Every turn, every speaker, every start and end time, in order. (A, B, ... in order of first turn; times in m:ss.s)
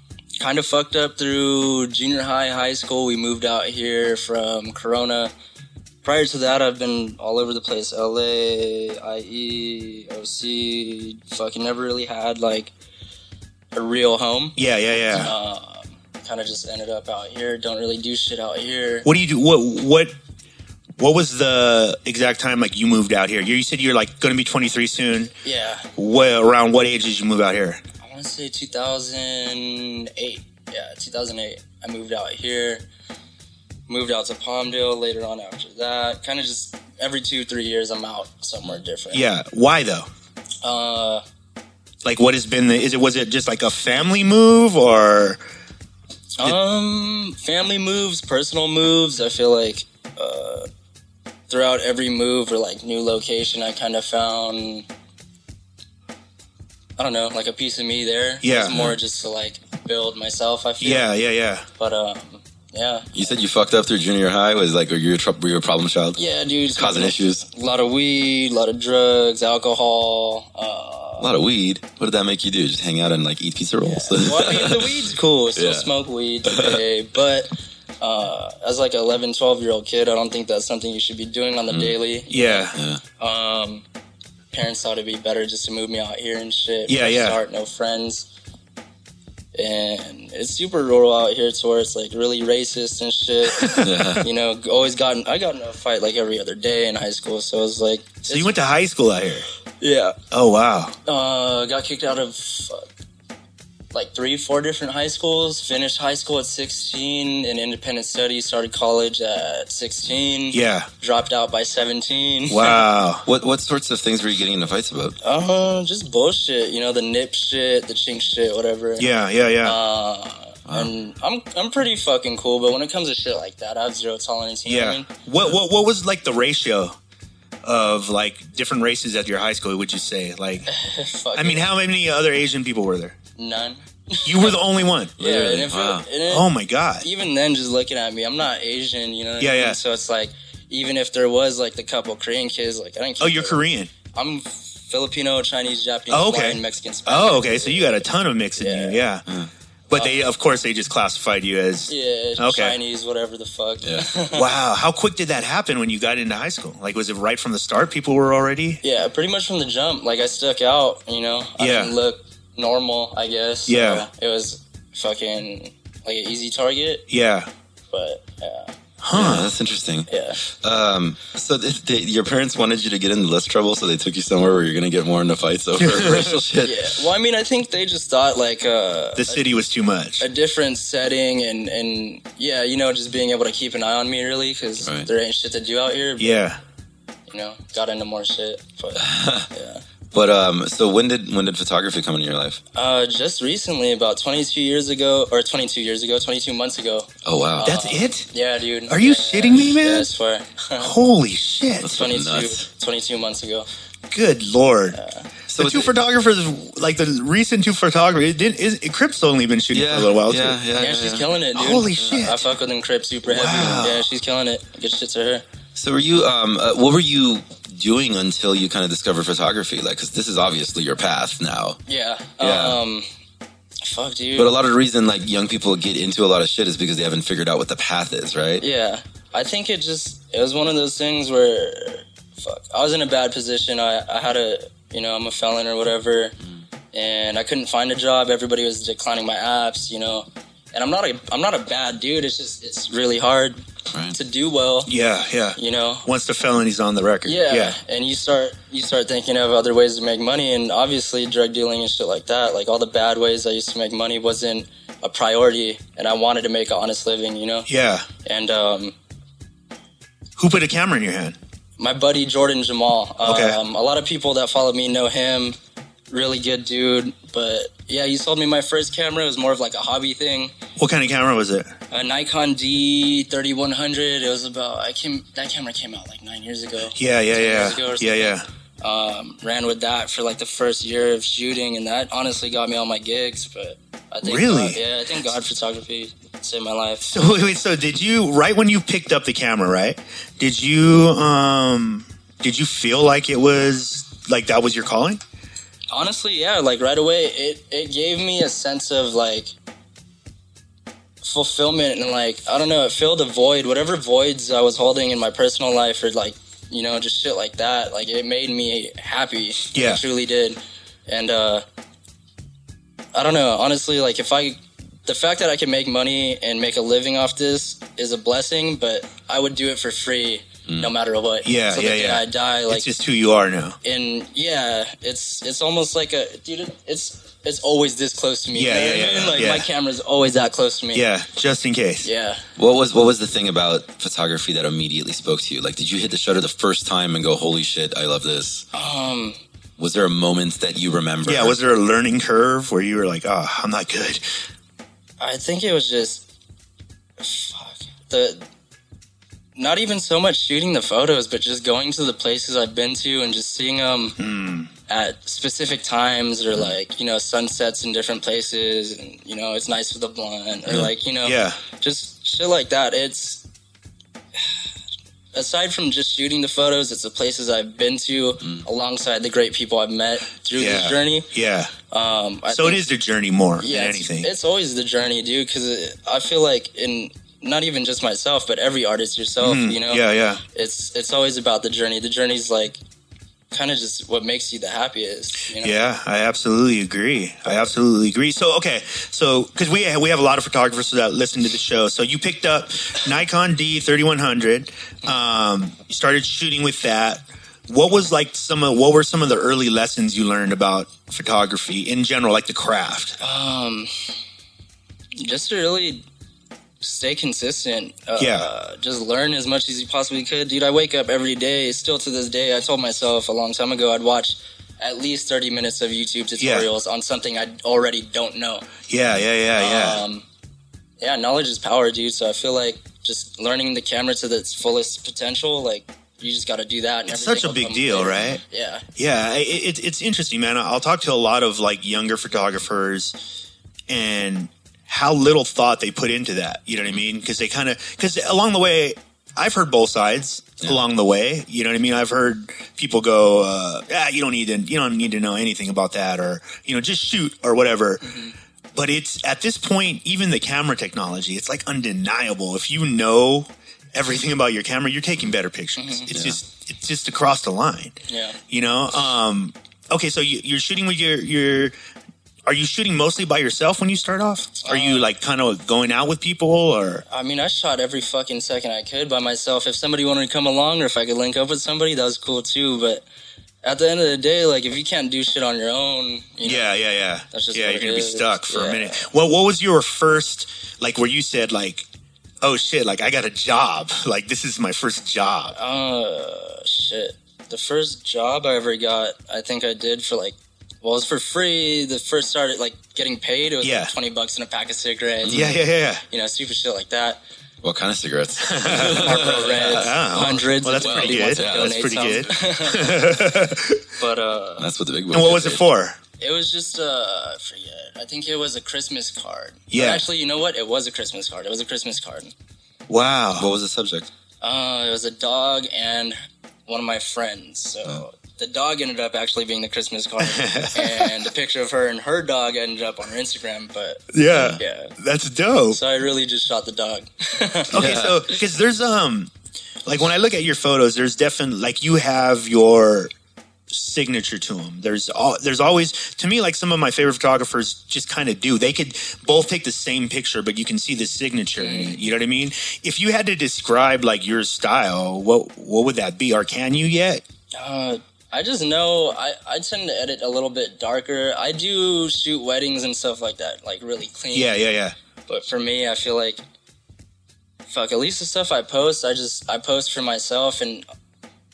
0:00.4-0:05.3 A
0:06.0-0:12.7 A
0:13.8-0:14.6 A
0:14.6-0:15.3 B
0:15.2-0:19.1 A
0:19.0-0:20.1 B
0:21.0-0:25.3 B
0:25.4-0:25.9 A
0:26.0-0:27.8 B
0:28.0-0:32.8 A
0:33.9-0:39.2 A
0:39.1-0:40.1 B
0:40.6-0:41.2 A
0:42.0-0:45.4 B
0:46.4-0:50.7 A
0:51.5-0:54.9 A
0:57.0-1:01.1 A
0:58.4-0:58.9 B
1:00.8-1:01.7 B
1:01.8-1:03.2 A
1:03.1-1:06.2 C
1:06.2-1:11.3 A
1:06.8-1:07.4 C
1:11.2-1:14.9 C
1:13.8-1:23.8 A
1:15.6-1:15.9 C
1:16.5-1:16.8 C
1:22.3-1:22.8 B
1:22.8-1:23.0 C
1:24.5-1:28.3 A
1:26.9-1:27.4 B
1:29.5-1:38.6 A
1:33.6-1:34.1 B
1:33.8-1:34.2 C
1:38.3-1:39.5 B
1:39.8-1:40.2 A
1:40.3-1:41.0 B
1:41.1-1:42.9 A
1:43.9-1:52.8 A
1:50.5-1:50.9 B
1:52.5-1:53.3 B
1:53.2-1:55.2 C
1:55.2-1:59.1 A
1:59.0-1:59.8 B
1:59.6-2:05.1 A
2:04.7-2:07.0 B
2:07.6-2:10.7 B
2:10.7-2:11.7 A
2:11.3-2:13.2 B
2:13.4-2:14.6 A
2:14.2-2:15.2 B
2:15.2-2:16.5 A
2:15.2-2:16.1 C
2:16.3-2:17.1 B
2:17.0-2:28.0 A
2:19.4-2:19.8 B
2:23.2-2:23.9 B
2:26.1-2:29.2 B
2:28.6-2:29.0 A
2:29.9-2:32.8 B
2:29.9-2:30.3 A
2:31.9-2:34.5 A
2:33.8-2:34.1 C
2:34.3-2:38.8 B
2:38.8-2:47.1 A
2:41.6-2:42.0 B
2:43.7-2:44.1 B
2:47.1-2:47.5 B
2:47.9-2:48.7 A
2:49.0-2:49.5 B
2:49.1-2:56.8 C
2:50.1-2:50.4 A
2:55.8-2:56.4 B
2:56.6-2:59.6 A
2:59.2-3:00.2 B
3:00.2-3:06.4 A
3:04.8-3:05.1 C
3:06.2-3:06.6 B
3:07.3-3:09.8 A
3:09.0-3:09.5 C
3:10.1-3:12.6 C
3:12.7-3:21.0 A
3:17.2-3:17.7 C
3:17.6-3:18.3 B
3:18.9-3:20.1 B
3:20.8-3:21.9 B
3:21.8-3:22.7 C
3:21.9-3:23.7 A
3:24.1-3:25.0 B
3:24.9-3:25.3 A
3:25.5-3:25.9 C
3:25.6-3:30.6 B
3:29.7-3:31.3 C
3:30.8-3:35.4 A
3:31.6-3:32.5 B
3:33.3-3:34.1 B
3:35.8-3:41.8 C
3:41.9-3:43.1 A
3:42.4-3:42.8 C
3:43.8-3:44.5 A
3:44.4-3:48.6 C
3:48.6-3:56.4 A
3:56.9-4:03.6 A
4:03.9-4:04.2 C
4:04.1-4:04.9 A
4:04.9-4:07.8 B
4:05.6-4:06.1 A
4:07.3-4:17.7 A
4:17.7-4:18.1 B
4:18.2-4:19.0 A
4:20.4-4:21.4 B
4:21.8-4:25.6 A
4:23.2-4:23.6 B
4:26.1-4:30.5 A
4:30.8-4:31.8 B
4:31.9-4:47.1 A
4:37.0-4:38.5 B
4:44.2-4:44.8 B
4:47.0-4:55.2 B
4:55.9-4:59.5 A
5:01.2-5:11.6 A
5:09.7-5:10.0 B
5:13.1-5:22.9 A
5:20.7-5:20.9 C
5:21.4-5:23.8 B
5:23.8-5:31.1 A
5:28.5-5:29.7 B
5:30.9-5:32.1 B
5:32.0-5:32.4 A
5:32.6-5:38.7 C
5:38.7-5:39.4 A
5:39.8-5:41.6 C
5:41.2-5:44.2 B
5:45.2-5:46.2 A
5:47.2-5:48.4 A
5:49.6-5:54.2 A
5:54.2-5:54.7 B
5:54.9-6:03.4 A
6:01.2-6:01.6 B
6:05.3-6:11.3 A
6:10.6-6:11.7 B
6:11.9-6:12.8 A
6:12.5-6:14.3 B
6:13.6-6:22.8 A
6:19.4-6:20.4 B
6:23.5-6:25.8 A
6:25.6-6:43.2 B
6:43.2-6:43.9 A
6:45.2-6:46.0 A
6:46.8-6:58.8 A
6:48.2-6:48.5 B
6:56.4-6:56.7 B
6:58.9-7:00.0 B
6:59.6-7:00.2 A
7:01.0-7:08.9 A
7:07.1-7:08.4 B
7:09.0-7:13.2 B
7:13.9-7:28.1 B
7:28.0-7:28.3 A
7:28.7-7:38.0 B
7:35.8-7:36.1 A
7:36.1-7:36.4 C
7:38.1-7:38.4 A
7:38.5-7:41.8 B
7:42.5-7:47.0 B
7:44.6-7:45.1 A
7:47.1-7:53.0 A
7:53.6-7:56.7 A
7:56.4-8:01.9 B
7:57.3-7:59.1 A
8:02.4-8:05.6 B
8:05.5-8:17.2 A
8:13.6-8:13.9 B
8:15.2-8:15.6 C
8:15.3-8:16.0 B
8:17.6-8:20.0 C
8:18.4-8:23.9 B
8:18.7-8:23.2 A
8:20.8-8:21.9 C
8:24.0-8:24.7 A
8:24.6-8:25.6 C
8:25.1-8:26.0 B
8:26.2-8:32.3 A
8:29.7-8:30.0 B
8:32.9-8:33.5 B
8:33.4-8:34.1 C
8:34.4-8:44.9 A
8:40.2-8:41.2 B
8:44.1-8:45.8 B
8:44.3-8:44.6 C
8:45.7-8:47.7 A
8:47.7-8:48.4 C
8:47.7-8:49.3 B
8:49.8-8:53.1 B
8:53.7-9:07.2 B
9:01.6-9:02.0 A
9:07.6-9:14.6 A
9:14.3-9:15.0 B
9:15.3-9:16.4 A
9:17.7-9:20.8 A